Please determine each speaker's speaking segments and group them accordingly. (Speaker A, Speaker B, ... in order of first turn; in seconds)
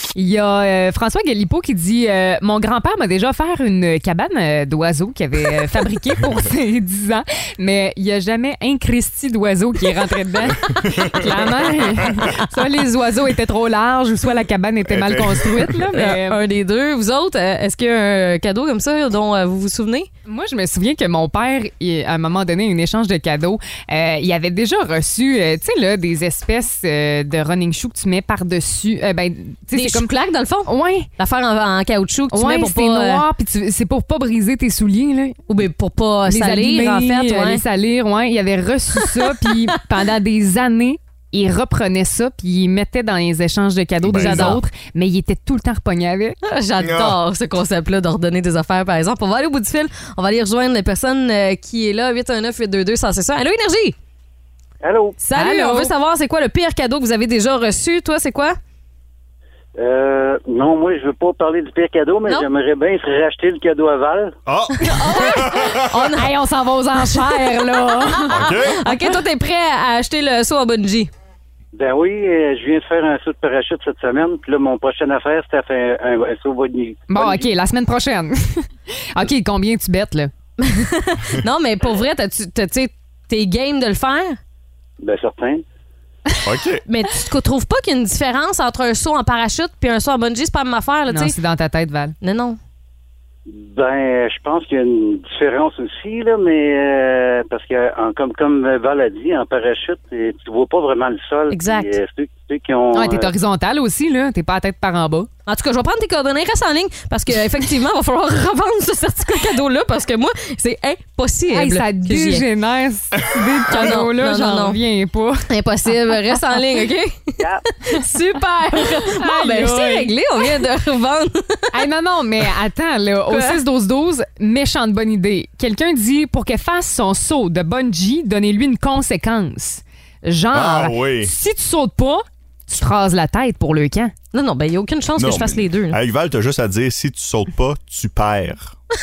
Speaker A: 0.1-16.4, 20.3-30.1, 30.7-31.1, 32.3-35.4, 36.3-46.4, 55.4-55.9, 65.0-69.0, 77.1-80.3, 91.1-92.2, 102.9-105.3, 111.5-115.5, 119.0-120.1, 121.7-134.1
Speaker B: 10.8-11.4, 14.9-15.8, 44.0-44.6, 46.8-47.2, 64.5-65.9, 68.3-68.8, 86.4-86.8, 130.5-131.3, 135.2-138.8
Speaker C: 15.9-20.1, 29.7-33.2, 35.5-37.6, 39.0-39.6, 44.2-44.6, 46.4-54.0, 55.2-58.6, 64.8-66.3, 67.0-71.1, 80.6-84.4, 86.9-91.3, 92.2-92.6, 101.5-102.0, 105.5-112.5, 113.7-114.8, 115.5-121.7, 123.3-123.6, 134.3-136.0
Speaker D: 54.8-55.2, 59.8-64.4, 71.7-77.5, 85.0-85.6, 93.5-103.3